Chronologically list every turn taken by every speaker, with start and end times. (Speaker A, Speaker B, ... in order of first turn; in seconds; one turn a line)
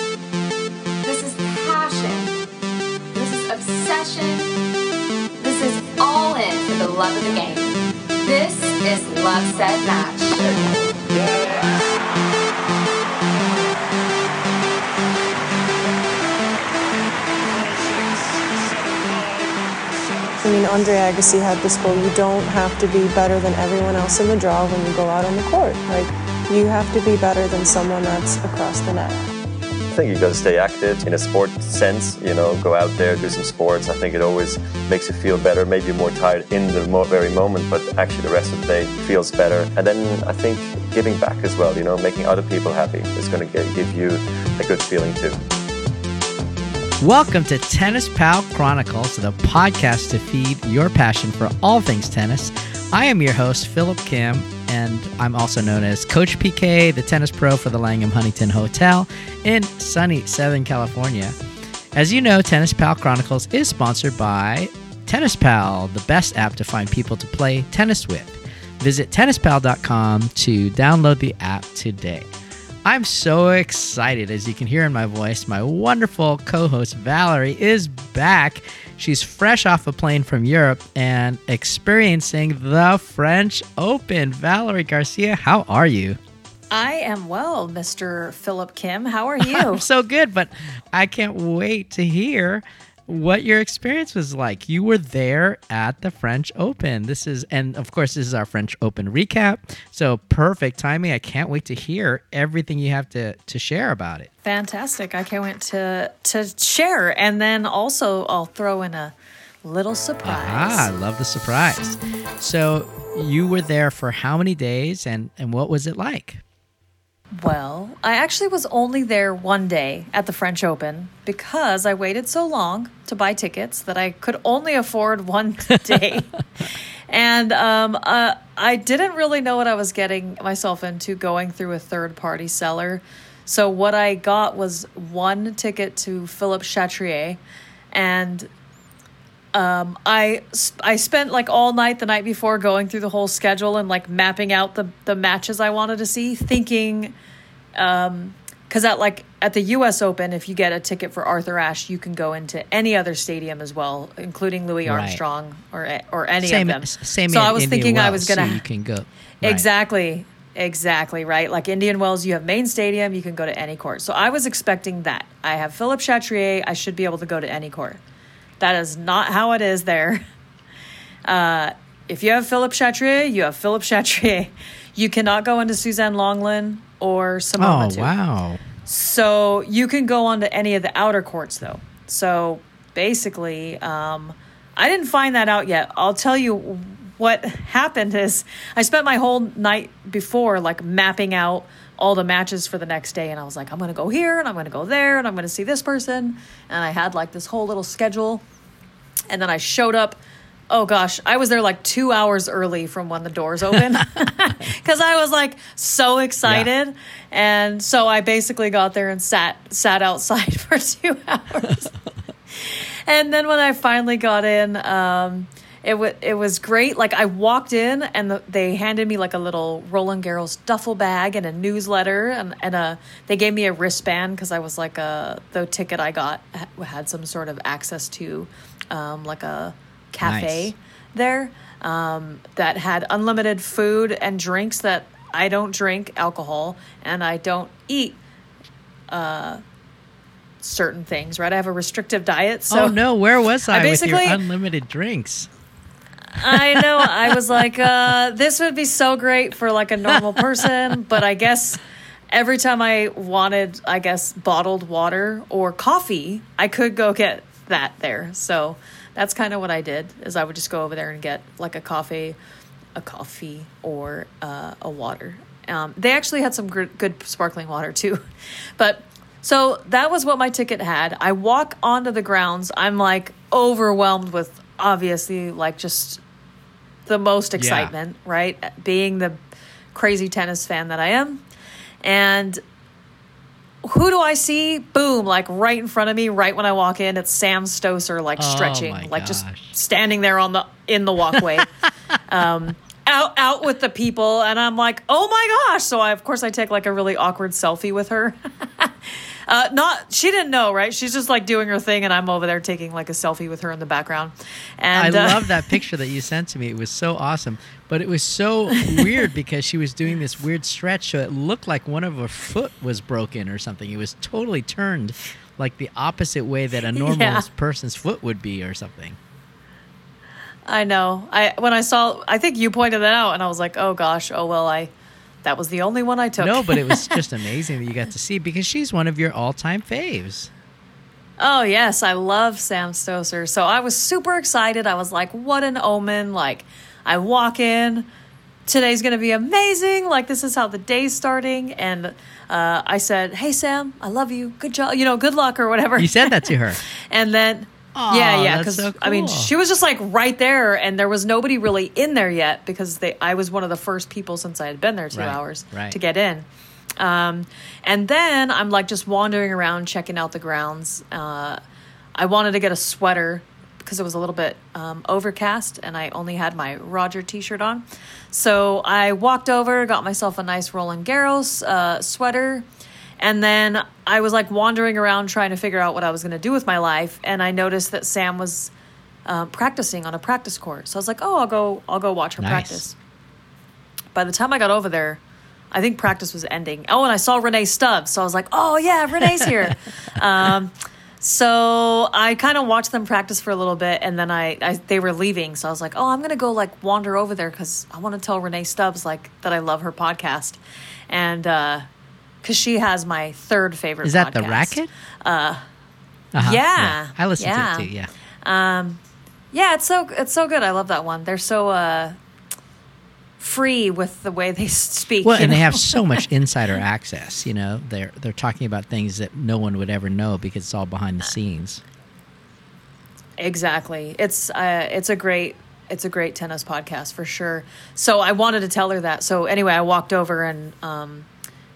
Speaker A: 1.0-2.3
Speaker A: 3.1-4.5
Speaker A: 5.4-10.4
Speaker B: 20.4-29.2
Speaker C: 29.9-45.4
Speaker D: 47.0-61.4
Speaker D: 61.9-72.3
Speaker D: 72.8-86.2
Speaker E: 86.7-89.8
Speaker D: 89.4-104.3
Speaker E: 104.4-110.9
Speaker D: 110.2-116.4
Speaker E: 117.3-126.3
Speaker E: 127.1-137.4
Speaker E: 137.9-138.5
Speaker E: 139.5-147.1
Speaker E: 147.7-158.6
Speaker D: 154.8-155.2
Speaker D: 156.4-159.7
Speaker E: 159.4-168.0
Speaker E: 168.6-170.2
Speaker E: 171.2-178.1
Speaker D: 177.6-178.6
Speaker E: 178.8-198.4
Speaker E: 199.3-200.2
Speaker E: 200.7-211.9
Speaker E: 212.6-238.2
Speaker D: 230.2-230.7
Speaker E: 239.1-239.6
Speaker E: 240.6-242.9
Speaker D: 242.7-245.5
Speaker E: 243.7-244.4
Speaker E: 246.3-251.8
Speaker D: 246.5-246.8
Speaker E: 252.3-262.4
Speaker E: 262.9-268.2
Speaker E: 268.8-276.2
Speaker E: 277.1-279.4
Speaker D: 277.6-277.9
Speaker E: 279.9-281.4
Speaker E: 282.0-282.6
Speaker E: 283.8-291.7
Speaker D: 288.4-289.7
Speaker E: 292.3-305.8
Speaker D: 304.9-319.2
Speaker E: 316.9-317.4
Speaker E: 320.6-324.9
Speaker E: 325.4-327.2
Speaker D: 326.4-330.5
Speaker E: 331.4-338.1
Speaker E: 338.7-361.6
Speaker D: 345.9-346.8
Speaker D: 347.9-349.5
Speaker D: 355.1-356.0
Speaker E: 362.1-372.6
Speaker E: 373.2-378.7
Speaker E: 379.2-382.9
Speaker D: 382.4-382.8
Speaker E: 384.1-401.9
Speaker E: 402.4-405.6
Speaker D: 404.0-404.9
Speaker D: 406.3-408.1
Speaker E: 406.4-407.9
Speaker E: 408.4-409.0
Speaker E: 409.5-412.1
Speaker E: 413.4-416.2
Speaker D: 415.2-421.8
Speaker E: 423.4-431.3